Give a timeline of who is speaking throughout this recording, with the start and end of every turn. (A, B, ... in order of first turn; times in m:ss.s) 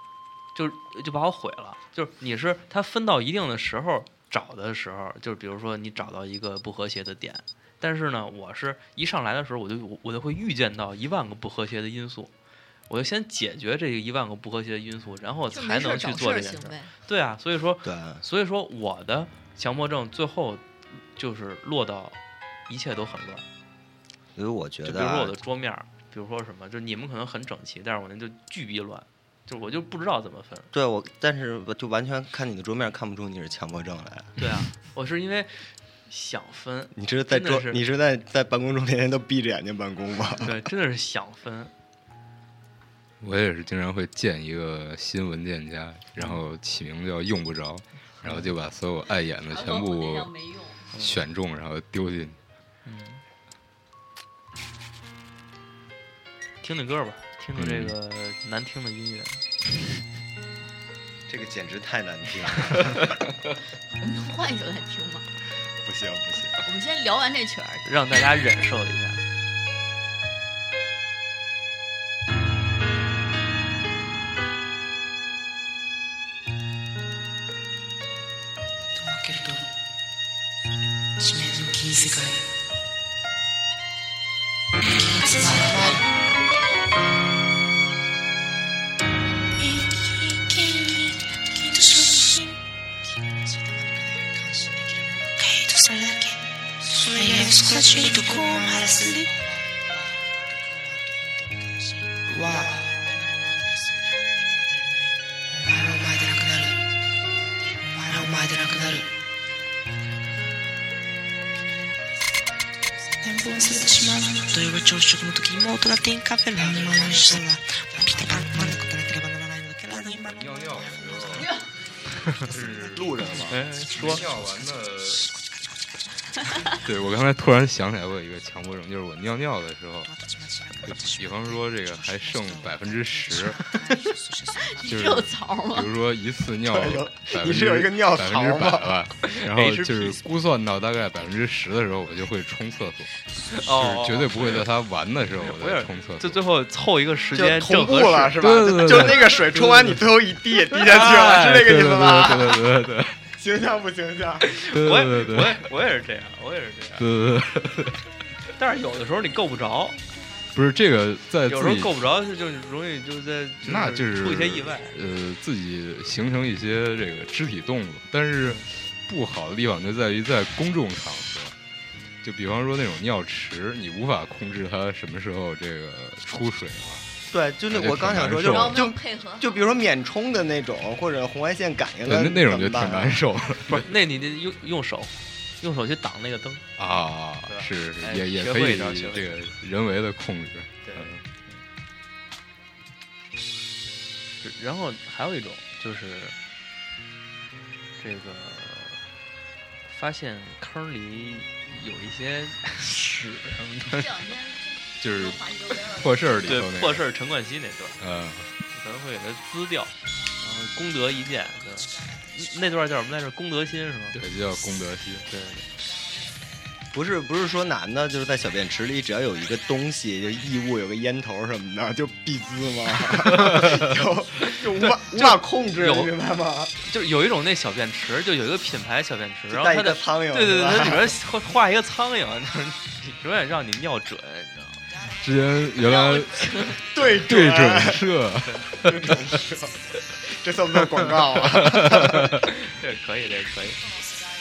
0:00.5-0:12.3 A
0:12.9-0:23.4 A
0:15.5-0:16.9 B
0:17.8-0:18.2 C
0:24.4-0:25.3 C
0:24.8-0:30.7 A
0:30.7-0:34.4 C
0:34.4-0:37.8 A
0:36.9-0:40.5 C
0:40.4-0:41.7 A
0:43.2-0:50.3 D
0:48.2-0:48.5 A
0:49.1-0:50.9 B
0:50.9-0:51.2 A
0:51.0-0:52.4 D
0:52.8-0:53.2 A
0:56.6-0:59.4 A
0:57.6-0:57.9 D
1:01.3-1:03.2 C
1:03.9-1:05.3 B
1:05.8-1:06.6 C
1:06.6-1:07.9 B
1:07.8-1:09.2 A
1:19.0-1:19.6 E
1:21.2-1:22.5 E
1:25.0-1:26.0 E
1:29.6-1:32.6 E
1:35.2-1:39.4 E
1:42.3-1:43.0 E
1:45.5-1:46.8 E
1:47.9-1:49.1 E
1:53.2-2:00.2 E
2:00.0-2:01.5 D
2:01.3-2:01.7 B
2:02.3-2:05.3 D
2:02.8-2:03.6 C
2:03.5-2:04.2 A
2:06.6-2:10.1 D
2:10.8-2:13.7 D
2:14.6-2:15.9 B
2:14.8-2:26.4 D
2:16.7-2:18.9 C
2:19.2-2:20.3 A
2:23.5-2:24.6 A
2:25.4-2:28.4 A
2:27.3-2:32.7 C
2:28.4-2:30.0 D
2:30.9-2:33.2 D
2:30.9-2:31.5 A
2:33.3-2:34.5 C
2:34.5-2:37.0 A
2:34.7-2:35.6 D
2:37.0-2:38.0 D
2:38.6-2:40.0 A
2:40.5-2:41.9 D
2:41.5-2:44.9 A
2:43.6-2:51.5 D
2:52.2-2:57.0 D
2:57.3-3:03.3 C
2:57.7-2:58.8 D
2:58.4-2:59.6 B
3:02.0-3:03.8 D
3:03.7-3:06.6 A
3:06.8-3:11.2 D
3:07.4-3:09.3 A
3:10.8-3:11.6 A
3:14.4-3:16.4 A
3:18.0-3:19.0 A
3:19.8-3:24.1 A
3:23.8-3:26.6 B
3:25.0-3:27.0 D
3:26.4-3:28.0 A
3:28.0-3:28.5 D
3:28.7-3:34.2 A
3:34.1-3:35.3 D
3:35.3-3:35.7 A
3:36.9-3:46.7 C
3:44.5-3:46.1 A
3:46.8-3:54.8 A
3:49.5-3:51.2 C
3:55.1-3:59.2 D
3:55.8-3:56.8 B
3:56.9-3:58.1 C
3:58.7-4:02.4 C
4:01.4-4:02.5 D
4:02.6-4:03.8 A